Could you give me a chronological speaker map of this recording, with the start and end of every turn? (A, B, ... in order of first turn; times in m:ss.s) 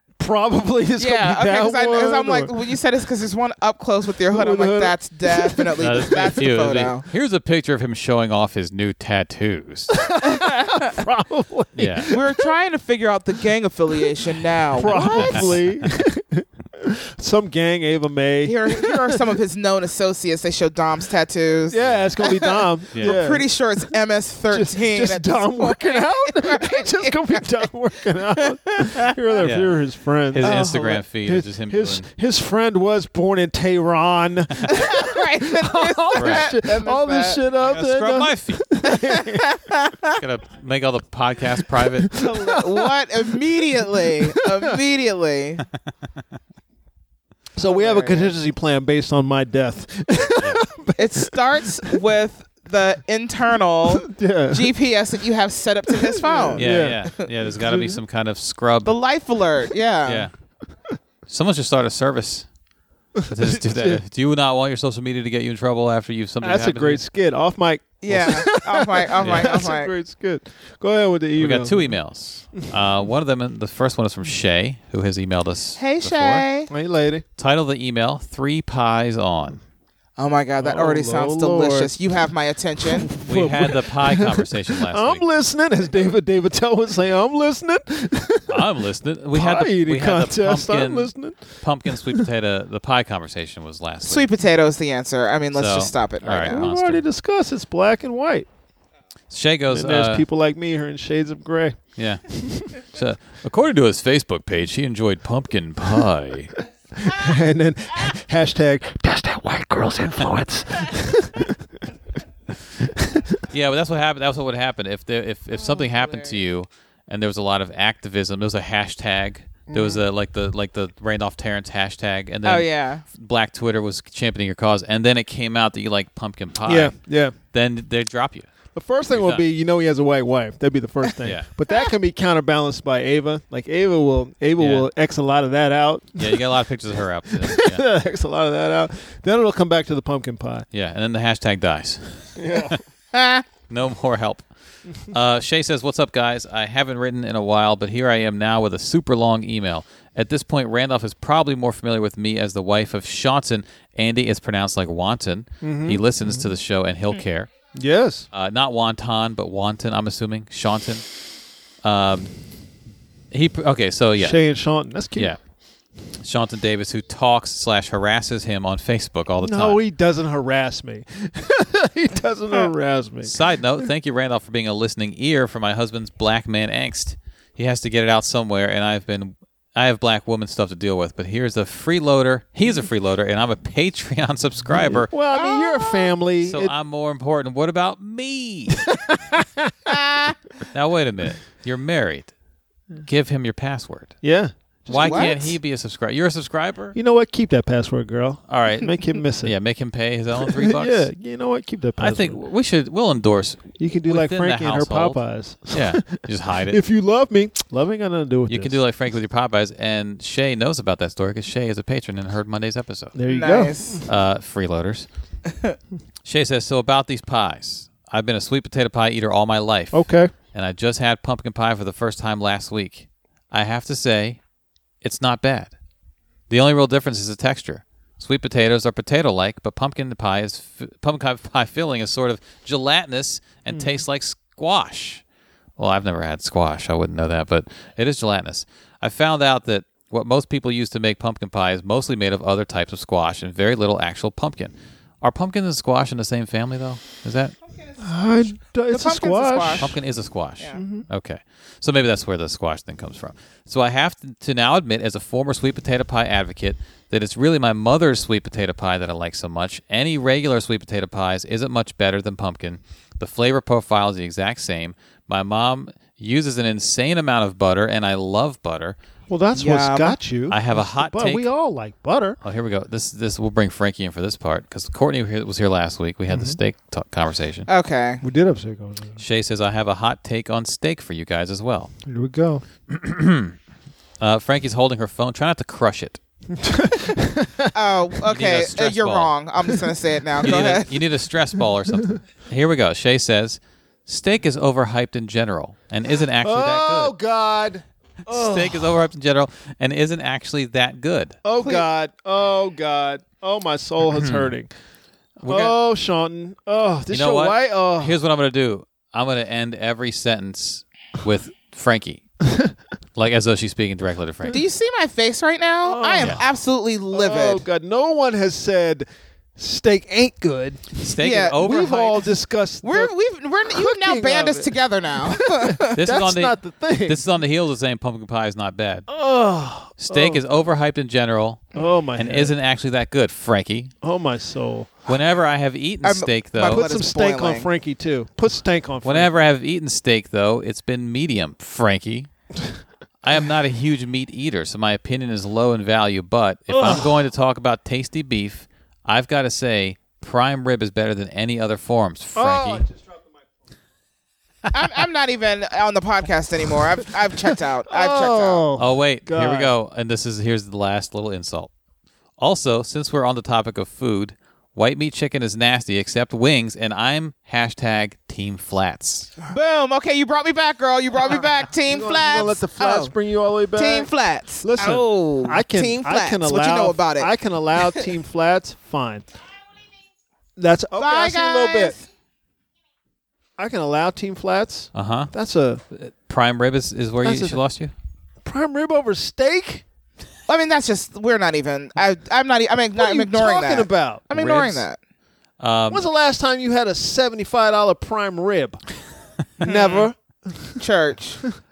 0:00.2-0:02.5 A
0:01.0-0:07.0 B
0:04.3-0:05.9 A
0:05.8-0:10.0 C
0:09.9-0:12.5 A
0:10.2-0:10.8 B
0:11.8-0:12.1 C
0:12.1-0:15.5 B
0:14.7-0:19.2 A
0:15.1-0:15.6 C
0:18.4-0:27.6 B
0:21.7-0:23.5 A
0:22.9-0:23.2 C
0:24.5-0:39.5 A
0:28.7-0:29.1 B
0:29.4-0:29.7 C
0:30.3-0:32.1 C
0:30.4-0:31.0 B
0:34.6-0:37.4 B
0:36.2-0:36.5 C
0:37.6-0:38.7 C
0:38.8-0:40.1 B
0:40.2-0:42.2 C
0:41.8-0:42.9 A
0:42.1-0:45.6 B
0:43.6-0:44.3 A
0:47.5-0:52.0 A
0:47.6-0:48.3 B
0:50.4-0:50.6 C
0:51.0-0:57.2 B
0:53.9-0:54.7 A
0:55.9-0:58.0 A
0:56.6-0:58.9 C
0:58.8-1:00.3 B
1:00.0-1:00.3 C
1:01.3-1:02.5 C
1:03.2-1:04.0 A
1:03.2-1:07.0 C
1:06.4-1:12.0 A
1:08.0-1:09.9 B
1:09.2-1:09.5 C
1:11.4-1:16.4 C
1:15.8-1:16.7 B
1:16.7-1:17.2 A
1:17.4-1:19.6 C
1:20.2-1:23.1 B
1:20.6-1:22.0 A
1:22.8-1:32.3 A
1:23.2-1:25.2 C
1:28.5-1:34.3 C
1:34.0-1:36.6 B
1:35.5-1:37.0 C
1:36.5-1:38.5 A
1:39.3-1:40.2 C
1:39.7-1:42.8 A
1:42.0-1:46.6 C
1:46.9-1:51.8 A
1:52.8-1:53.4 A
1:53.5-2:07.0 C
1:55.6-1:56.4 B
1:59.7-2:00.0 A
2:02.4-2:03.0 B
2:06.6-2:07.3 A
2:07.5-2:08.5 C
2:08.7-2:16.5 A
2:09.1-2:09.4 C
2:14.6-2:14.9 C
2:16.2-2:17.9 C
2:17.3-2:20.7 A
2:20.7-2:22.8 C
2:22.4-2:22.8 A
2:23.1-2:23.4 B
2:23.7-2:37.5 C
2:35.6-2:36.5 A
2:37.7-2:38.3 A
2:38.3-2:41.1 C
2:41.8-2:42.3 C
2:43.3-2:44.4 C
2:44.2-2:45.3 A
2:46.2-2:49.8 C
2:49.4-2:53.8 A
2:53.2-3:05.1 C
3:04.7-3:06.7 A
3:05.3-3:06.1 B
3:06.4-3:09.0 C
3:08.8-3:09.7 A
3:09.9-3:10.4 B
3:10.7-3:12.3 C
3:13.0-3:14.2 C
3:14.2-3:15.4 A
3:14.9-3:17.0 C
3:14.9-3:15.5 B
3:16.9-3:19.5 A
3:18.5-3:21.1 C
3:20.4-3:22.4 A
3:22.0-3:26.8 C
3:23.8-3:28.8 A
3:28.5-3:33.2 C
3:33.1-3:34.0 A
3:33.3-3:34.0 B
3:34.0-3:35.0 C
3:36.2-3:44.4 C
3:39.9-3:40.3 A
3:45.0-3:45.7 C
3:46.5-3:55.2 C
3:53.7-3:54.0 A
3:55.8-4:07.6 C
4:07.7-4:10.0 B
4:08.0-4:10.0 A
4:09.8-4:29.0 C
4:10.7-4:11.1 A
4:29.3-4:32.4 A
4:29.5-4:30.2 B
4:30.5-4:31.5 C
4:32.4-4:37.7 C
4:36.3-4:36.6 A
4:37.7-4:38.2 B
4:38.2-4:39.2 A
4:39.2-4:41.9 C
4:42.0-4:42.6 A
4:42.9-4:43.6 C
4:44.2-4:46.2 C
4:46.5-4:47.7 A
4:47.7-4:50.9 B
4:48.3-4:49.3 C
4:50.4-4:57.1 C
4:50.4-4:50.7 A
4:56.4-4:59.0 A
4:58.3-5:01.4 C
5:01.4-5:04.7 A
5:04.1-5:04.5 C
5:05.4-5:05.8 C
5:05.4-5:08.2 A
5:07.1-5:12.3 C
5:13.2-5:14.6 C
5:14.5-5:17.6 B
5:15.8-5:16.4 A
5:17.1-5:21.0 A
5:21.0-5:22.3 C
5:21.2-5:21.6 B
5:21.6-5:23.1 A
5:22.8-5:26.0 B
5:23.6-5:27.2 A
5:26.0-5:29.1 C
5:29.1-5:30.4 A
5:30.0-5:33.9 C
5:31.8-5:32.5 A
5:34.0-5:35.1 A
5:35.1-5:36.9 C
5:36.0-5:37.7 B
5:36.6-5:39.3 A
5:39.0-5:42.3 C
5:43.2-5:52.8 C
5:46.7-5:47.1 A
5:52.3-5:53.3 A
5:54.7-5:58.6 B
5:57.9-5:59.7 A
5:58.8-6:01.7 C
6:02.4-6:09.3 C
6:09.5-6:13.1 B
6:11.8-6:14.1 A
6:13.7-6:17.3 B
6:14.6-6:19.2 A
6:20.6-6:22.0 A
6:21.0-6:22.0 B
6:23.6-6:25.8 A
6:24.9-6:25.3 C
6:25.9-6:27.9 C
6:27.2-6:27.6 A
6:28.4-6:29.8 A
6:30.5-6:35.0 B
6:32.9-6:34.8 A
6:35.6-6:36.1 C
6:35.9-6:38.8 A
6:39.6-6:40.8 A
6:39.6-6:40.1 B
6:40.8-6:41.4 B